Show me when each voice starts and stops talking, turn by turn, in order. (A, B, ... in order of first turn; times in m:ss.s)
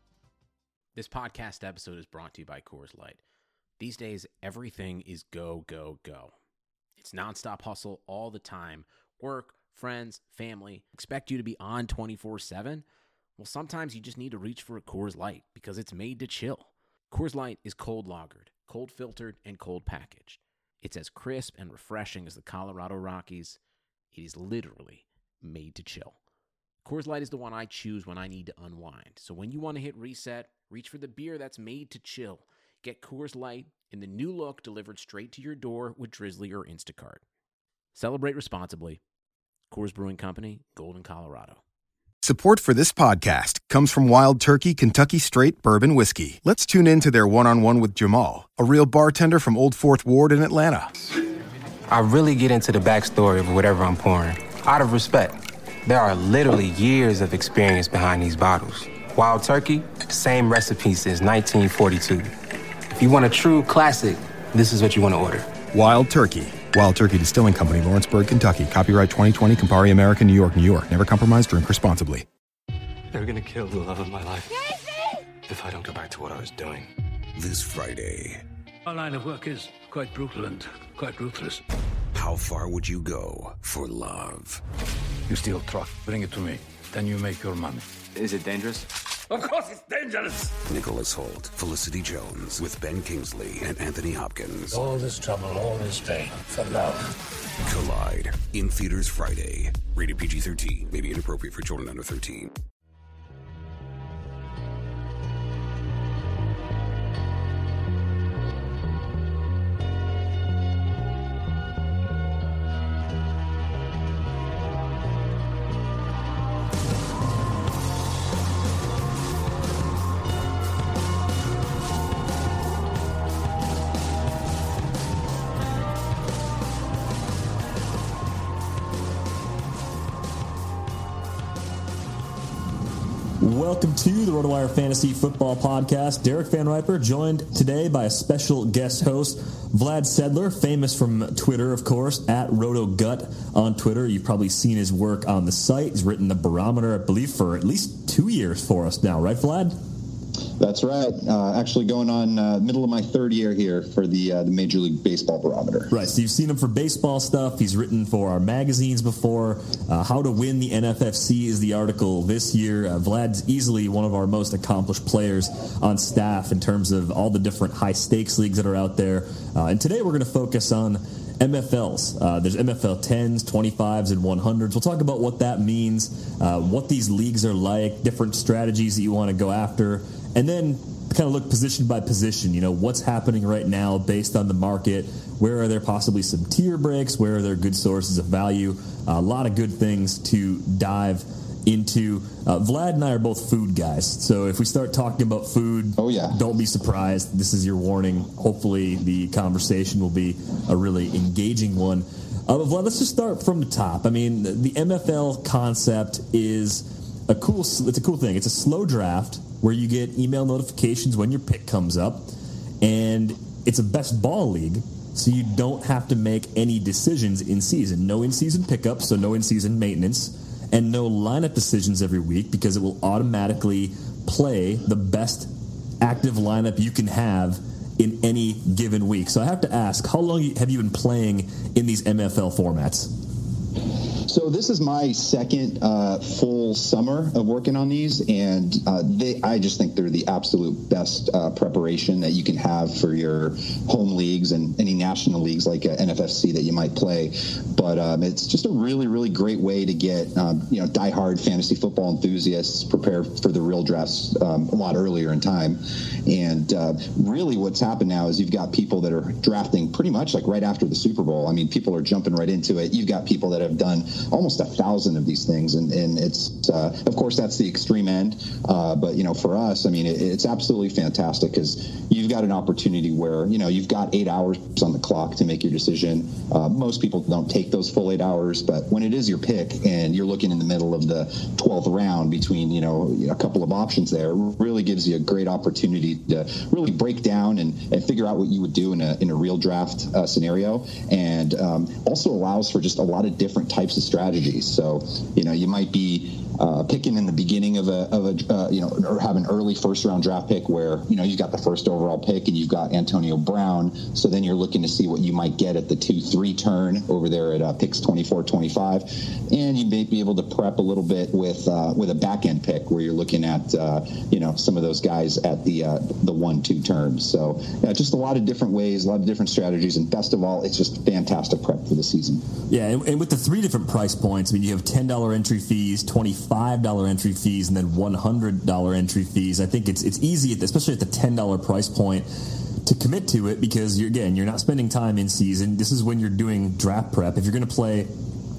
0:01.0-0:03.2 A
0:03.8-0:06.4 A
0:07.0-0:12.8 A
0:13.4-0:23.6 A
0:24.1-0:26.2 A
0:26.8-0:37.2 A
0:38.0-0:39.0 A
0:39.7-0:41.6 A
0:42.2-0:50.9 B
0:51.9-1:02.3 C
1:03.0-1:05.6 C
1:05.7-1:12.2 B
1:13.1-1:14.7 D
1:15.5-1:16.9 D
1:17.4-1:18.4 E
1:18.9-1:21.6 F
1:22.1-1:24.6 E
1:25.3-1:27.8 F
1:28.2-1:28.8 C
1:29.3-1:30.6 F
1:30.6-1:34.9 E
1:34.7-1:37.1 F
1:37.6-1:42.5 E
2:13.4-2:29.8 G
2:30.6-2:35.9 H
2:35.9-3:32.3 G
3:16.0-3:16.4 H
3:32.8-3:45.5 G
3:46.0-3:53.1 G
3:54.3-5:22.4 H
5:22.7-5:32.3 G
5:32.8-5:38.1 G